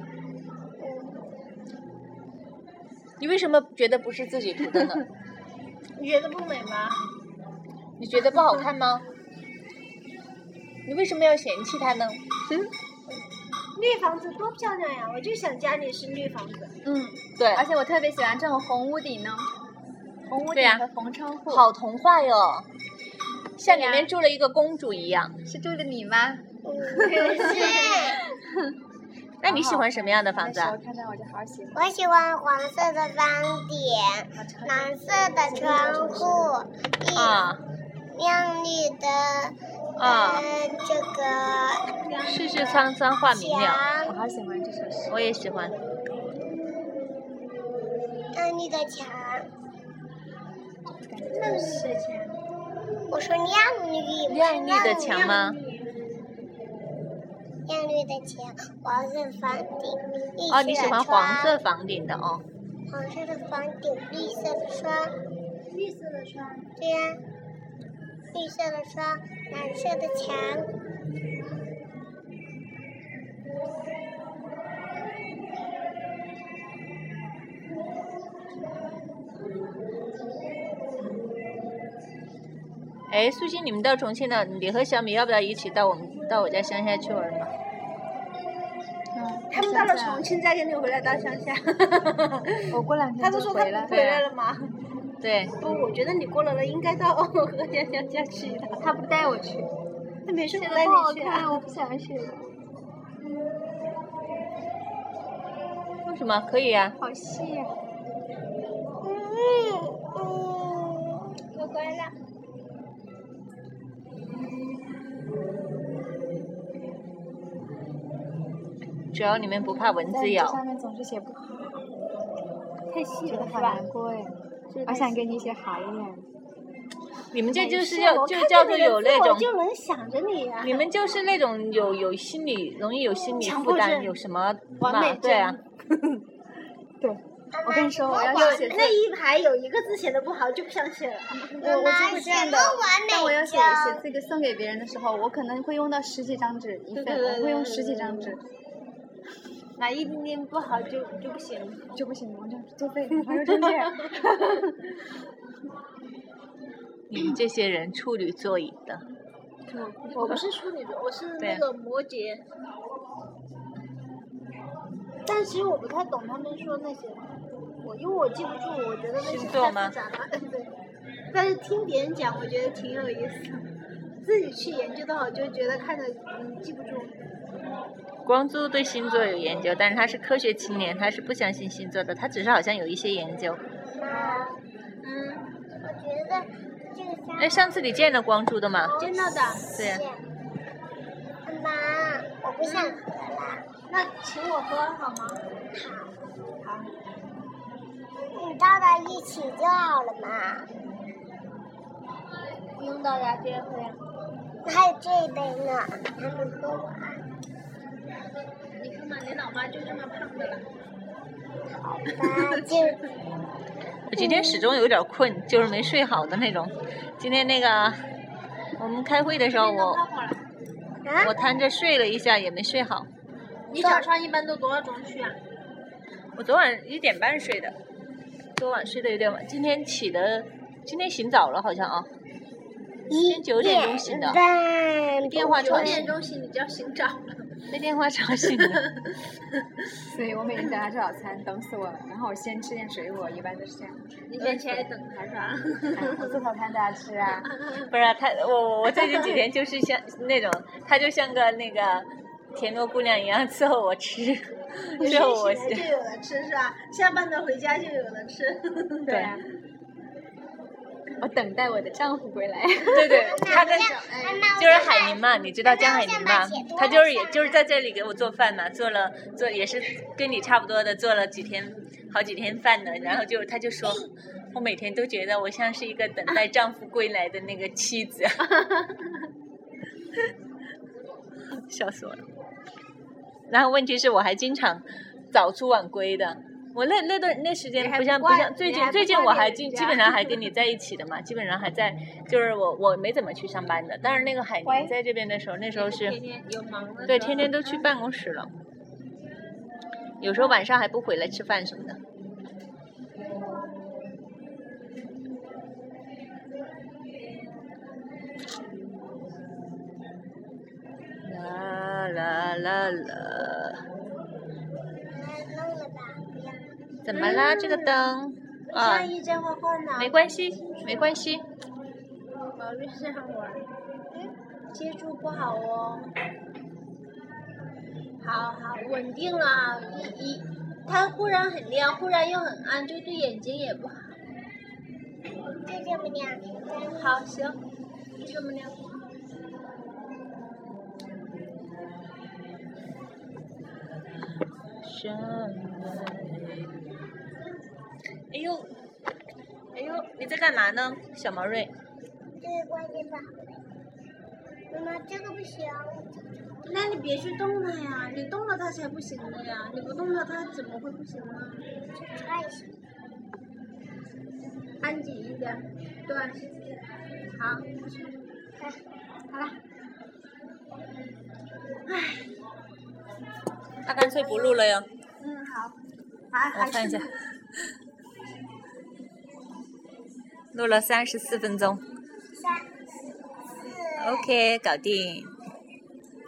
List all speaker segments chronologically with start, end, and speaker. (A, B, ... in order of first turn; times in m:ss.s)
0:00.8-0:01.3 A
0:03.2-0:05.0 B
0:06.0-0:07.0 C
0:08.0-0:09.0 B
0:10.8-0:12.6 B
0:13.7-0:16.7 C
0:16.8-0:19.5 D
0:17.4-0:17.7 B
0:20.2-0:21.7 D
0:20.5-0:20.8 B
0:21.5-0:22.7 B
0:23.6-0:25.4 B
0:23.7-0:24.0 D
0:25.4-0:26.4 D
0:26.6-0:28.2 A
0:27.0-0:28.2 D
0:27.4-0:28.0 C
0:29.4-0:30.7 B
0:29.4-0:31.8 D
0:31.7-0:37.4 A
0:34.4-0:36.5 D
0:37.1-0:37.6 B
0:38.1-0:41.8 A
0:40.0-0:40.5 B
0:42.0-0:42.9 C
0:42.2-0:43.8 B
0:43.3-0:44.1 A
0:44.0-0:45.2 D
0:45.1-0:45.7 B
0:48.3-0:49.5 A
0:51.0-0:51.9 D
0:51.3-0:52.4 C
0:53.1-0:55.4 A
0:54.3-0:55.6 B
0:54.9-0:55.8 C
0:57.7-1:01.5 A
1:00.5-1:02.4 B
1:02.9-1:05.1 A
1:05.7-1:06.7 C
1:06.8-1:07.2 A
1:08.3-1:10.7 A
1:23.1-1:27.5 B
1:29.1-1:30.2 D
1:29.5-1:34.7 C
1:32.7-1:33.9 D
1:33.9-1:34.2 B
1:35.2-1:35.5 B
1:35.6-1:38.8 C
1:38.8-1:39.7 D
1:40.3-1:41.6 C
1:40.5-1:42.4 D
1:46.0-1:47.0 B
1:47.0-1:47.8 D
1:49.0-1:51.3 A
1:51.5-1:52.1 C
1:59.1-2:00.6 B
2:00.0-2:01.8 D
2:02.9-2:03.8 C
2:03.3-2:04.3 D
2:04.7-2:05.2 C
2:04.8-2:06.2 D
2:07.3-2:09.5 B
2:07.5-2:10.9 C
2:10.6-2:15.6 B
2:13.1-2:14.1 C
2:14.8-2:15.6 C
2:17.0-2:19.0 D
2:17.5-2:18.8 A
2:18.3-2:21.4 C
2:21.4-2:28.4 D
2:21.6-2:24.0 A
2:26.9-2:28.4 C
2:29.8-2:32.0 C
2:31.9-2:34.6 D
2:33.3-2:34.3 C
2:37.1-2:39.0 B
2:39.7-2:40.4 D
2:40.1-2:42.4 C
2:45.2-2:47.3 C
2:47.8-2:50.7 C
2:49.2-2:49.9 B
2:51.3-2:53.6 C
2:54.2-2:57.1 C
2:58.2-3:03.6 B
3:03.9-3:04.6 A
3:04.0-3:05.5 C
3:05.7-3:07.8 A
3:07.4-3:09.0 B
3:08.9-3:09.7 C
3:09.2-3:10.2 A
3:09.7-3:10.0 B
3:11.4-3:13.7 A
3:12.6-3:13.0 C
3:13.9-3:15.4 C
3:15.7-3:16.1 A
3:16.6-3:16.9 C
3:18.3-3:20.7 A
3:22.8-3:24.0 C
3:24.6-3:27.2 A
3:28.7-3:30.6 C
3:31.7-3:33.0 A
3:32.1-3:33.0 C
3:34.1-3:38.0 B
3:34.2-3:34.7 A
3:38.8-3:40.0 B
3:39.5-3:40.4 C
3:41.0-3:41.3 A
3:41.2-3:43.1 B
3:43.7-3:45.4 C
3:43.8-3:44.1 A
3:46.4-3:47.7 B
3:48.6-3:52.1 B
3:53.1-3:56.1 A
3:53.2-3:54.4 B
3:55.3-3:56.1 B
3:55.4-3:57.4 C
3:57.7-3:58.8 B
3:58.7-3:59.1 C
4:00.0-4:04.8 D
4:04.3-4:06.4 C
4:05.9-4:07.5 D
4:07.8-4:15.9 B
4:15.0-4:19.3 C
4:19.1-4:19.4 D
4:19.1-4:19.3 B
4:21.2-4:23.9 D
4:22.9-4:24.0 B
4:23.2-4:27.6 A
4:24.6-4:38.5 B
4:38.5-4:39.2 C
4:41.5-4:42.2 B
4:43.5-4:56.2 B
4:47.8-4:50.3 C
4:55.7-4:57.8 C
4:57.1-4:58.5 B
5:00.2-5:02.0 B
5:11.2-5:13.8 B
5:15.1-5:16.7 A
5:17.0-5:19.1 B
5:17.1-5:18.1 C
5:18.7-5:21.1 C
5:20.0-5:21.4 B
5:22.6-5:23.6 C
5:24.7-5:26.1 C
5:28.2-5:34.2 C
5:35.6-5:37.2 A
5:37.0-5:37.6 C
5:38.2-5:38.8 C
5:44.8-5:46.6 B
5:48.3-5:48.7 B
5:49.7-5:51.7 B
5:52.4-5:53.6 A
5:54.7-5:56.1 A
5:56.6-6:01.6 C
6:01.9-6:02.7 A
6:04.8-6:06.7 C
6:07.4-6:08.1 C
6:09.3-6:09.6 C
6:11.9-6:12.2 C
6:13.8-6:14.8 B
6:15.2-6:15.7 C
6:16.3-6:17.2 C
6:16.5-6:17.1 B
6:20.5-6:21.8 B
6:22.3-6:22.7 A
6:23.6-6:24.3 A
6:24.0-6:25.3 B